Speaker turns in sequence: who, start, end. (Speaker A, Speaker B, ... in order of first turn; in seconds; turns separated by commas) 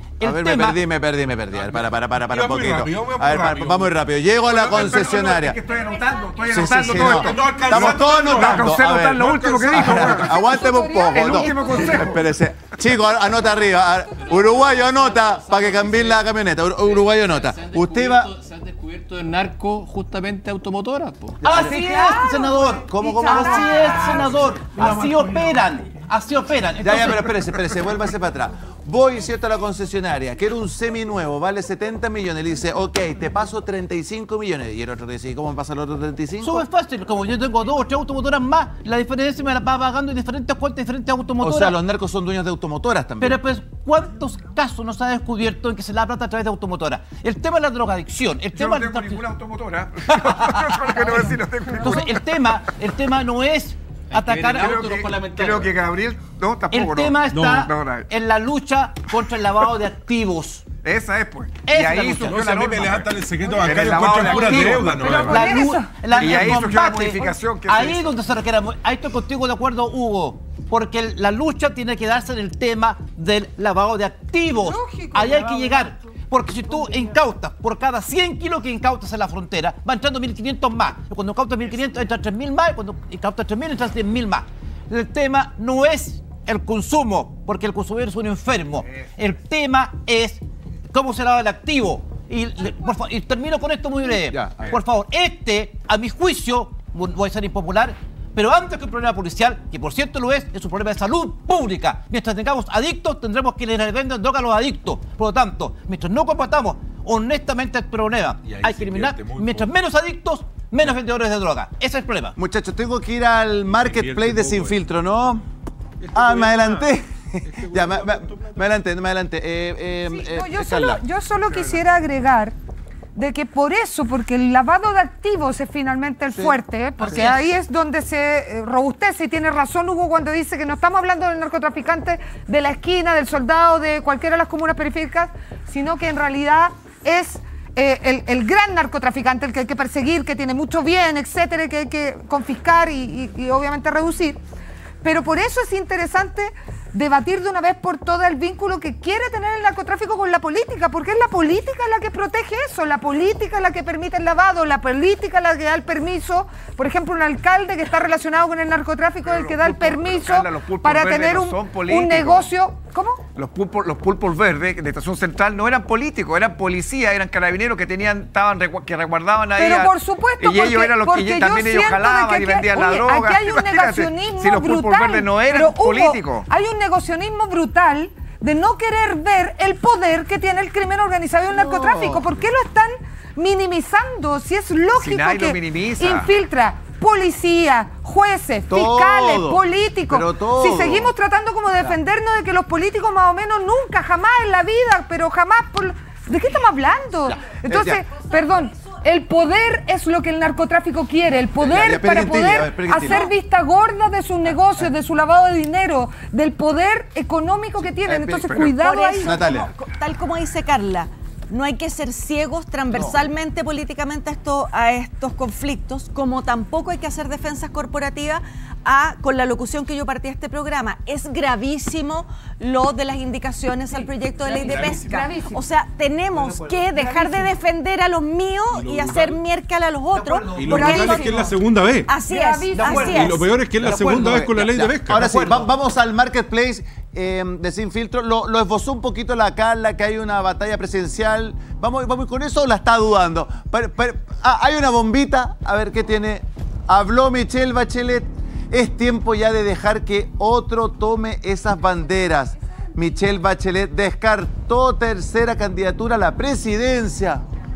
Speaker A: 0.2-0.8, Speaker B: 0.2-5.6, Speaker C: 1.6-4.1, Speaker D: 4.5-12.4, Speaker B: 6.4-18.3, Speaker C: 6.8-10.4, Speaker E: 10.3-12.1, Speaker F: 13.4-21.4, Speaker B: 21.4-21.8, Speaker A: 21.4-27.3, Speaker E: 21.5-24.2, Speaker B: 22.6-25.0, Speaker F: 24.8-25.6, Speaker B: 26.8-36.6, Speaker A: 36.4-41.8, Speaker B: 41.4-43.4, Speaker A: 43.2-49.3, Speaker D: 48.5-52.2, Speaker A: 50.1-54.9, Speaker F: 54.1-55.8, Speaker D: 54.5-58.1, Speaker A: 56.7-60.7, Speaker F: 57.4-57.6, Speaker D: 60.8-65.5, Speaker A: 61.6-62.6, Speaker C: 62.2-65.6, Speaker A: 64.2-112.4, Speaker E: 64.9-66.0, Speaker D: 66.0-68.2, Speaker E: 74.5-75.9, Speaker B: 94.3-94.7, Speaker C: 108.4-109.7, Speaker B: 112.3-115.4, Speaker C: 113.8-114.8, Speaker C: 116.0-116.8, Speaker B: 116.1-121.0, Speaker F: 116.2-116.8, Speaker C: 117.6-118.2, Speaker F: 117.8-118.4, Speaker E: 120.1-122.5, Speaker E: 123.1-144.4, Speaker B: 126.3-127.3, Speaker A: 127.0-127.3, Speaker E: 145.0-163.2, Speaker D: 159.2-162.5, Speaker D: 163.3-176.5, Speaker E: 169.6-209.4, Speaker B: 181.5-182.2, Speaker D: 185.0-186.3, Speaker B: 188.7-191.1, Speaker B: 197.3-198.0, Speaker G: 198.2-198.8, Speaker B: 201.6-203.3, Speaker D: 207.9-208.8, Speaker G: 208.7-231.5, Speaker B: 209.2-209.7, Speaker E: 223.9-225.6, Speaker E: 226.3-227.5, Speaker C: 228.7-229.4, Speaker D: 230.1-230.7, Speaker C: 230.5-232.1, Speaker E: 230.7-231.6, Speaker G: 232.1-233.5, Speaker E: 232.2-233.7, Speaker C: 232.9-235.3, Speaker D: 233.8-234.9, Speaker A: 233.9-235.7, Speaker B: 235.0-257.4